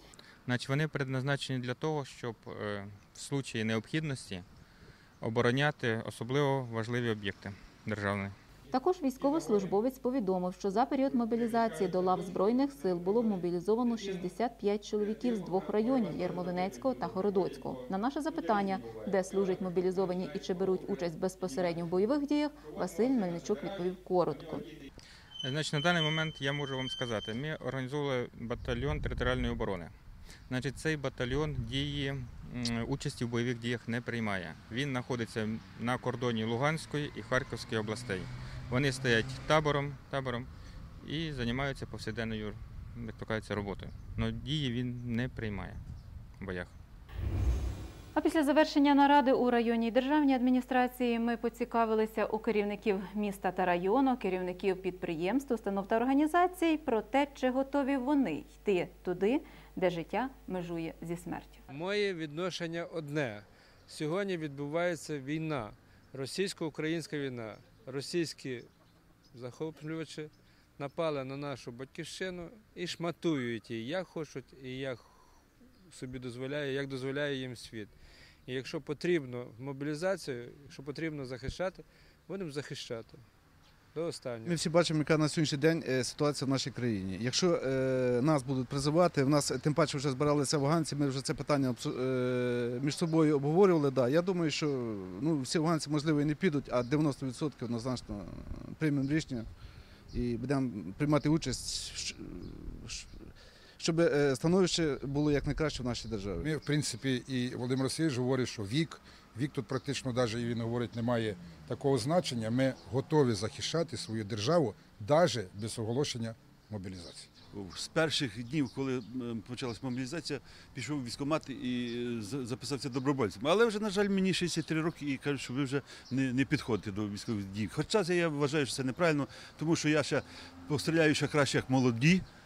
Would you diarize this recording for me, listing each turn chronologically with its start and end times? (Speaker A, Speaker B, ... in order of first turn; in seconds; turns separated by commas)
Speaker A: 0.5-4.5, Speaker A: 5.2-8.3, Speaker B: 8.7-24.7, Speaker A: 9.2-9.6, Speaker A: 11.2-13.4, Speaker A: 13.9-14.2, Speaker A: 15.1-19.6, Speaker A: 20.3-20.8, Speaker A: 22.8-23.6, Speaker A: 24.6-24.9, Speaker A: 25.4-29.9, Speaker A: 30.5-40.5, Speaker A: 41.0-45.8, Speaker A: 46.4-46.7, Speaker B: 48.1-61.6, Speaker C: 61.7-68.7, Speaker C: 69.3-75.3, Speaker C: 75.9-78.0, Speaker C: 78.5-83.2, Speaker C: 83.9-84.6, Speaker D: 84.5-99.5, Speaker D: 100.1-106.5, Speaker E: 106.4-117.3, Speaker F: 117.5-132.2